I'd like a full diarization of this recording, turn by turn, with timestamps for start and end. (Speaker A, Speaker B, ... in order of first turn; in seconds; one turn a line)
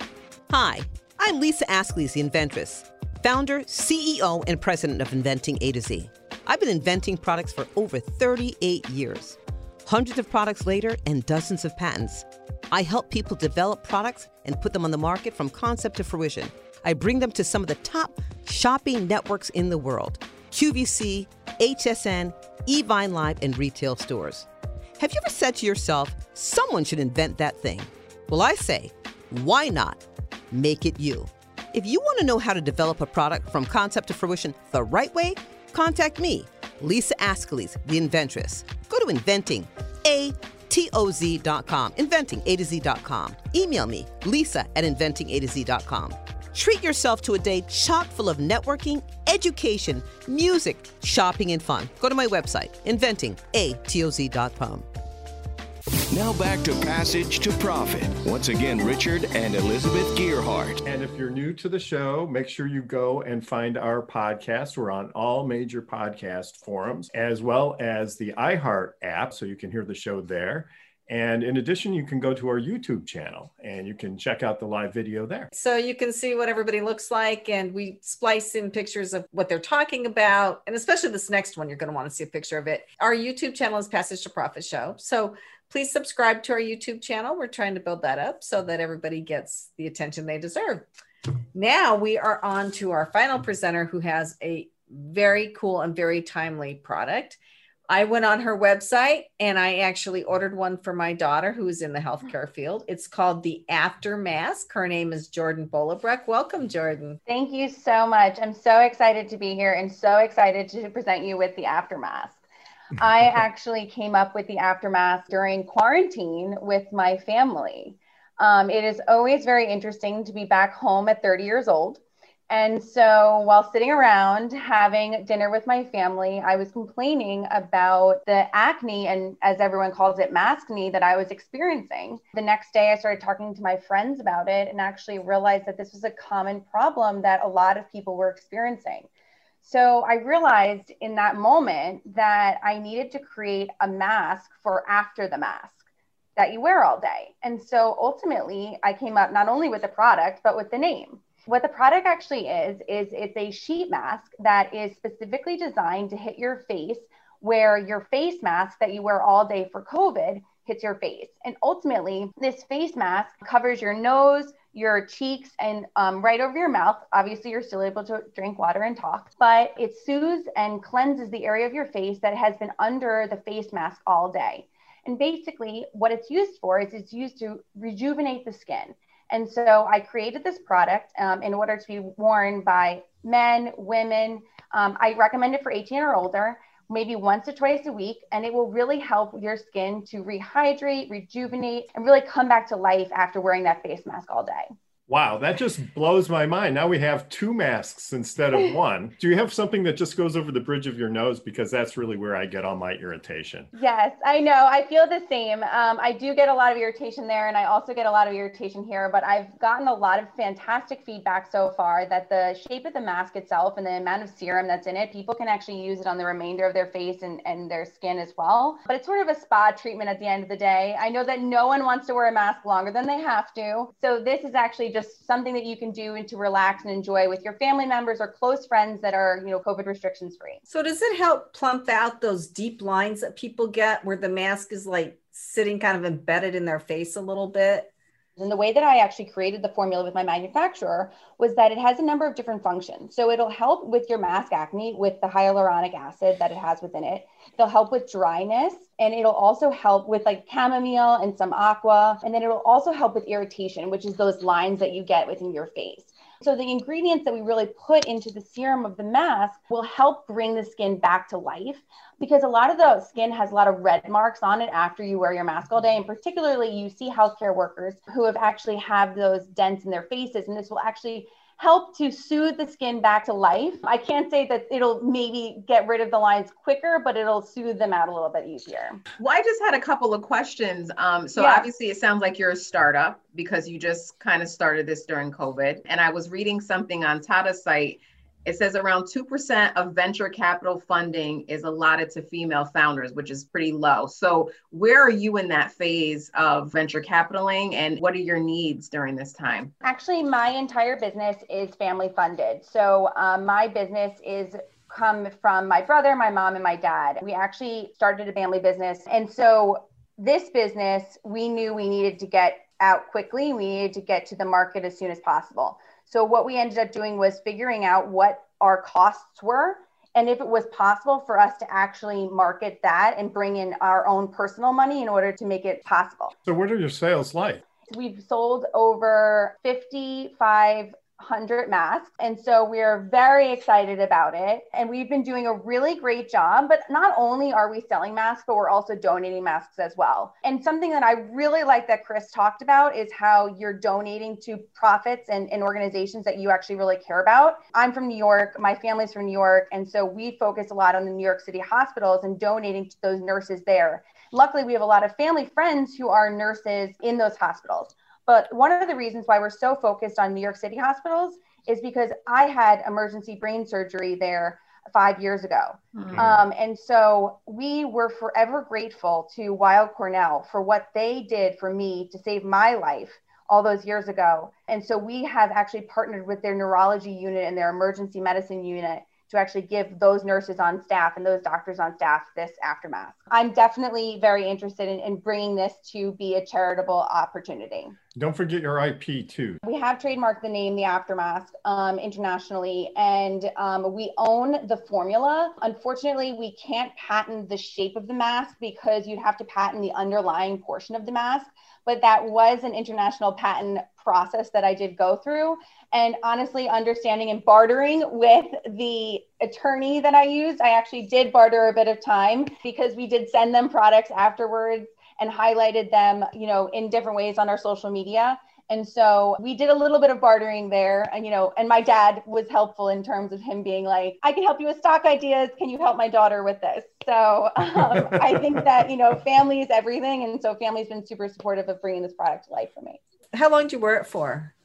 Speaker A: 0.5-54.9
Speaker B: 56.1-60.8
Speaker C: 60.9-75.5
Speaker D: 75.5-90.9
Speaker D: 91.5-97.4
Speaker D: 97.9-107.2
Speaker E: 107.3-112.4
Speaker E: 113.0-139.1
Speaker E: 139.6-145.8
Speaker E: 146.4-194.7
Speaker C: 195.1-203.7
Speaker E: 203.7-230.6
Speaker D: 230.7-237.9
Speaker E: 238.4-279.0
Speaker F: 279.2-299.7
Speaker E: 281.4-281.7
Speaker E: 299.8-326.3
Speaker C: 326.4-327.6
Speaker E: 327.9-388.0
Speaker F: 365.9-366.3
Speaker C: 388.1-389.6
Speaker E: 389.6-433.0
Speaker D: 433.3-434.5